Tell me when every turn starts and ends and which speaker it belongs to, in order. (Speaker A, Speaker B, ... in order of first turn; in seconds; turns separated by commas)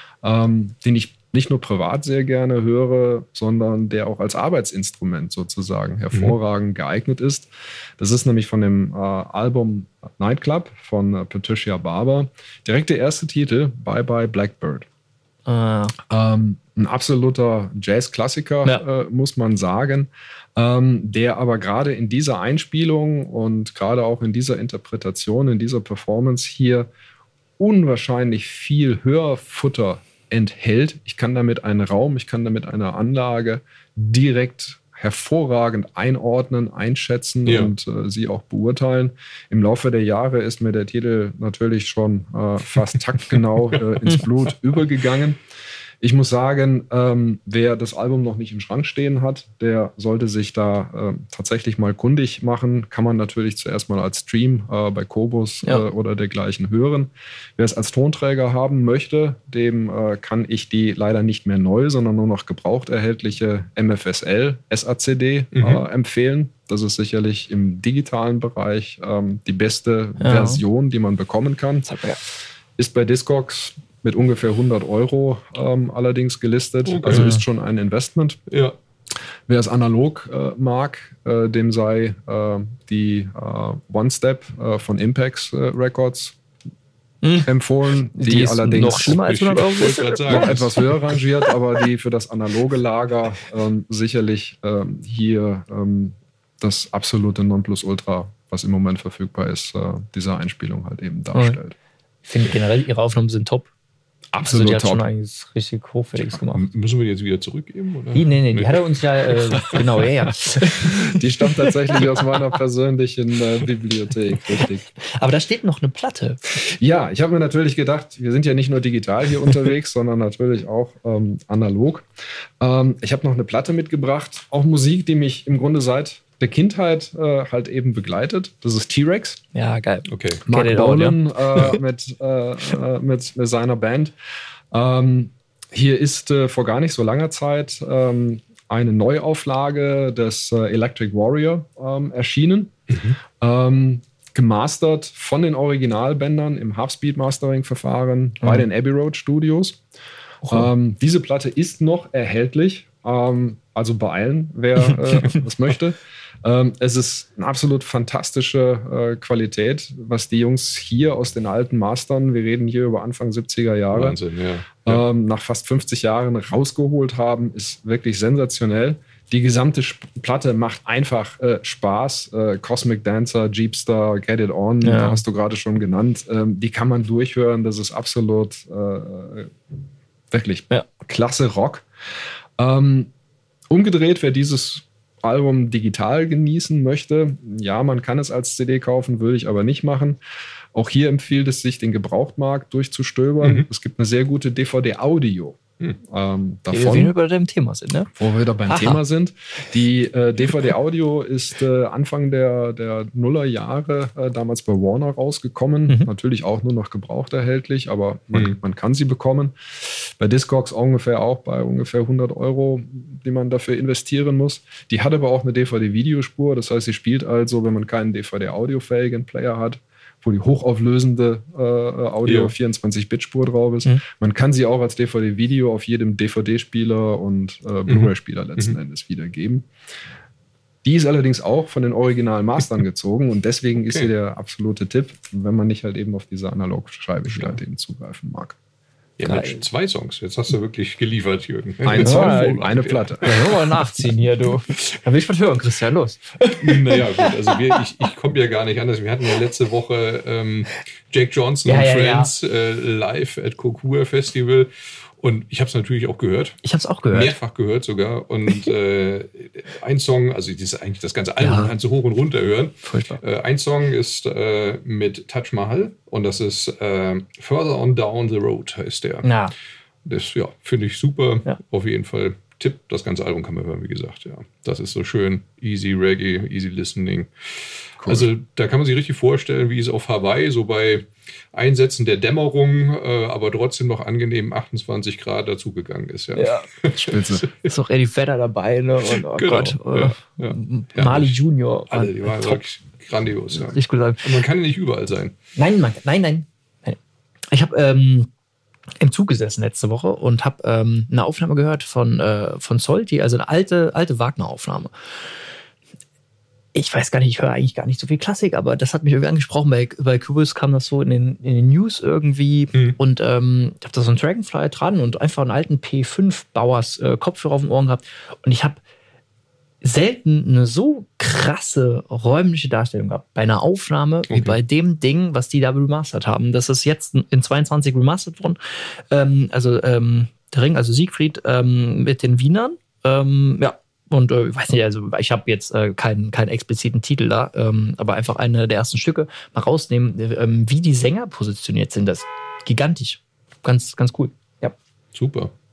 Speaker A: 0.2-14.9, Speaker B: 15.5-16.0, Speaker A: 16.1-26.9, Speaker A: 27.6-45.4, Speaker C: 37.5-37.7, Speaker C: 43.7-44.2, Speaker A: 46.0-71.9, Speaker C: 65.5-65.8, Speaker B: 70.2-70.6, Speaker B: 71.8-72.2, Speaker A: 72.8-78.4, Speaker C: 76.9-77.4, Speaker B: 77.1-77.4, Speaker C: 78.5-78.8, Speaker A: 79.5-86.4, Speaker B: 87.2-87.5, Speaker A: 87.4-89.2, Speaker B: 88.1-90.7, Speaker C: 89.0-91.0, Speaker A: 90.3-101.8, Speaker B: 101.3-101.6, Speaker B: 102.3-103.7, Speaker A: 104.3-105.1, Speaker B: 104.4-106.7, Speaker C: 106.5-110.1, Speaker B: 108.1-112.5, Speaker A: 110.7-114.9, Speaker B: 115.0-116.5, Speaker A: 116.6-122.1, Speaker A: 122.6-129.4, Speaker B: 129.5-131.8, Speaker C: 130.1-130.4, Speaker A: 130.5-134.1, Speaker A: 134.7-142.8, Speaker C: 142.9-143.2, Speaker A: 143.4-149.8, Speaker A: 150.4-164.2, Speaker C: 163.9-165.0, Speaker A: 164.8-179.5, Speaker B: 174.8-175.2, Speaker A: 180.3-181.9, Speaker A: 182.6-183.1, Speaker A: 183.7-190.2, Speaker A: 190.7-197.2, Speaker C: 193.4-193.7, Speaker B: 196.7-198.1, Speaker A: 198.2-229.7, Speaker B: 198.7-199.0, Speaker C: 222.2-222.5, Speaker C: 227.9-228.8, Speaker A: 230.8-238.6, Speaker C: 233.8-234.1, Speaker C: 239.2-243.8, Speaker B: 239.2-239.6, Speaker A: 241.8-243.3, Speaker B: 241.9-242.6, Speaker B: 243.2-247.8, Speaker C: 246.6-269.3, Speaker B: 251.7-252.3, Speaker B: 256.6-257.4, Speaker B: 261.4-261.7, Speaker B: 262.9-263.2, Speaker B: 269.2-269.5, Speaker C: 270.1-287.7, Speaker A: 278.0-278.3, Speaker B: 286.4-286.7, Speaker A: 286.9-287.5, Speaker B: 287.6-292.6, Speaker C: 289.1-291.4, Speaker C: 291.9-295.4, Speaker B: 293.7-294.4, Speaker B: 295.6-297.0, Speaker B: 297.5-298.3, Speaker B: 299.0-304.9, Speaker B: 306.7-318.8, Speaker C: 312.7-313.0, Speaker B: 319.8-344.8, Speaker C: 324.3-324.6, Speaker C: 345.1-345.5